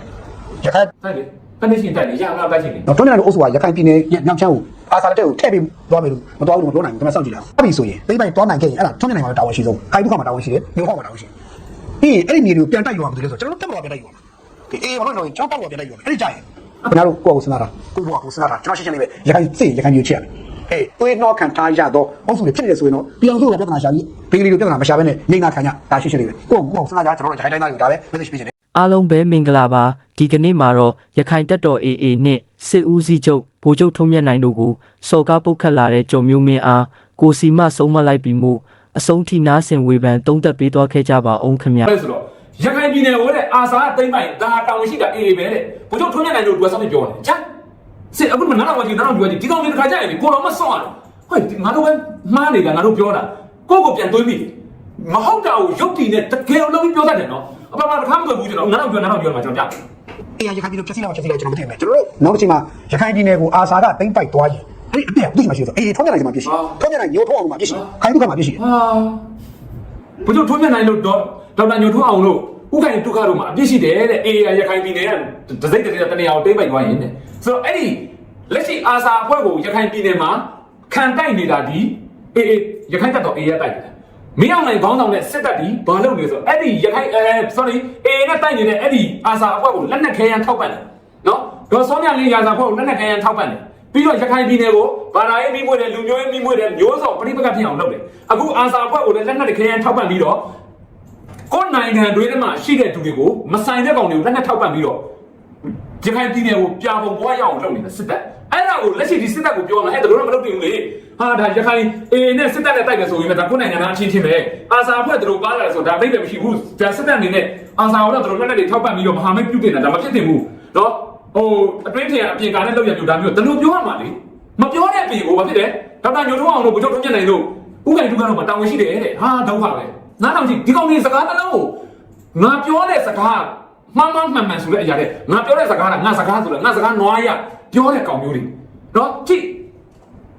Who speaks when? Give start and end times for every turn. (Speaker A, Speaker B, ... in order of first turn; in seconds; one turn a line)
Speaker A: 0.6-0.9
Speaker B: 1.0-2.9
Speaker A: 2.9-11.3
Speaker A: 12.0-14.2
Speaker A: 14.7-28.5
Speaker C: 28.8-41.9
Speaker B: 41.9-47.4
Speaker B: 48.1-59.7
Speaker A: 60.4-68.6
Speaker B: 66.5-66.7
Speaker B: 68.6-69.2
Speaker B: 70.2-100.5
Speaker B: 101.5-105.0
Speaker B: 106.0-131.8
Speaker B: 132.3-139.7